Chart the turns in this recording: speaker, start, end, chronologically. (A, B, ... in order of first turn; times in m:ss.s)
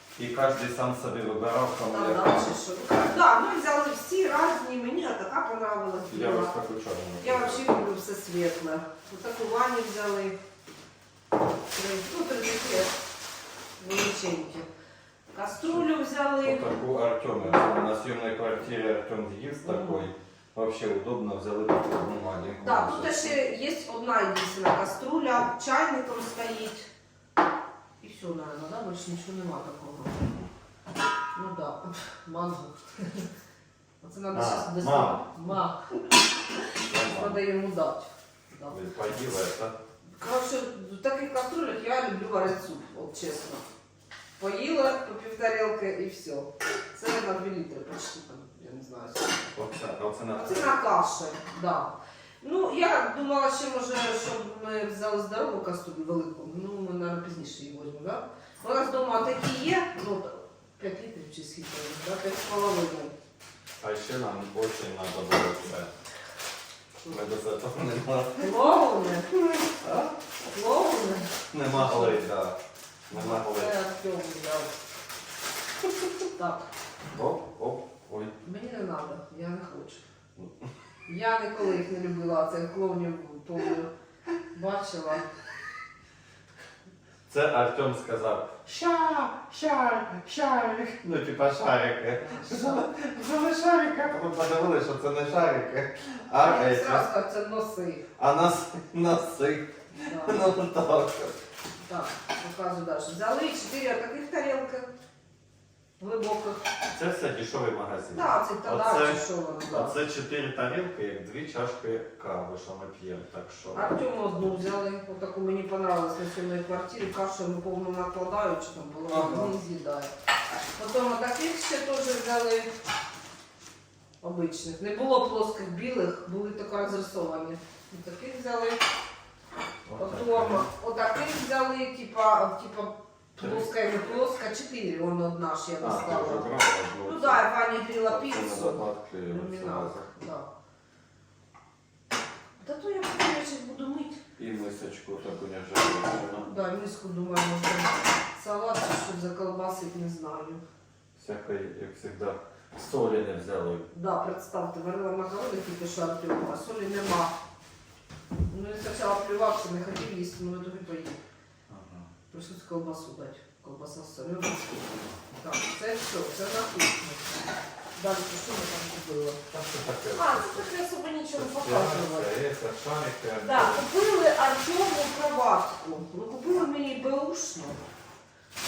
0:00.2-0:02.4 A
0:01.9-0:06.5 B
0:06.1-0:07.6 A
0:07.2-0:10.4 B
0:11.7-0:13.0 B
0:13.8-0:14.6 B
0:15.3-0:16.7 B
0:16.4-0:23.4 A
0:19.6-0:20.0 B
0:22.6-0:26.9 B
0:28.0-0:30.3 B
0:30.2-0:30.5 A
0:31.3-0:33.3 B
0:34.0-0:35.9 B
0:34.3-0:35.2 A
0:36.8-0:37.4 A
0:37.0-0:38.8 B
0:38.7-0:39.8 A
0:40.2-0:43.6 B
0:44.4-0:49.4 B
0:49.5-0:50.8 A
0:50.3-1:03.1 B
1:03.8-1:05.9 A
1:07.1-1:08.5 A
1:08.4-1:09.3 B
1:09.5-1:10.1 A
1:10.5-1:12.2 B
1:11.5-1:12.6 A
1:13.1-1:13.7 A
1:13.1-1:14.8 B
1:16.3-1:16.7 B
1:17.1-1:18.3 A
1:18.4-1:20.0 B
1:20.4-1:20.7 A
1:21.1-1:23.9 B
1:24.5-1:25.2 B
1:27.3-1:37.0 A
1:32.2-1:32.9 B
1:36.3-1:38.0 B
1:38.2-1:41.4 A
1:40.0-1:40.5 B
1:41.8-1:44.9 B
1:46.0-1:46.6 B
1:46.9-1:54.0 A
1:48.1-1:50.0 B
1:53.7-2:00.1 B
1:59.1-1:59.5 A
2:00.8-2:02.7 B
2:04.2-2:08.8 B
2:09.8-2:10.7 A
2:10.0-2:16.5 B
2:13.4-2:13.7 A
2:15.8-2:17.4 A
2:17.0-2:20.5 B
2:18.0-2:20.1 A
2:22.6-2:24.2 B
2:24.4-2:26.5 A
2:26.4-2:30.6 B
2:31.2-2:33.9 A
2:33.9-2:37.3 B
2:38.5-2:41.2 B
2:41.7-2:42.1 A
2:42.3-2:47.4 B
2:48.0-2:49.4 B
2:49.5-2:50.7 A
2:50.1-2:52.3 B
2:51.3-2:53.8 A
2:53.4-2:57.8 B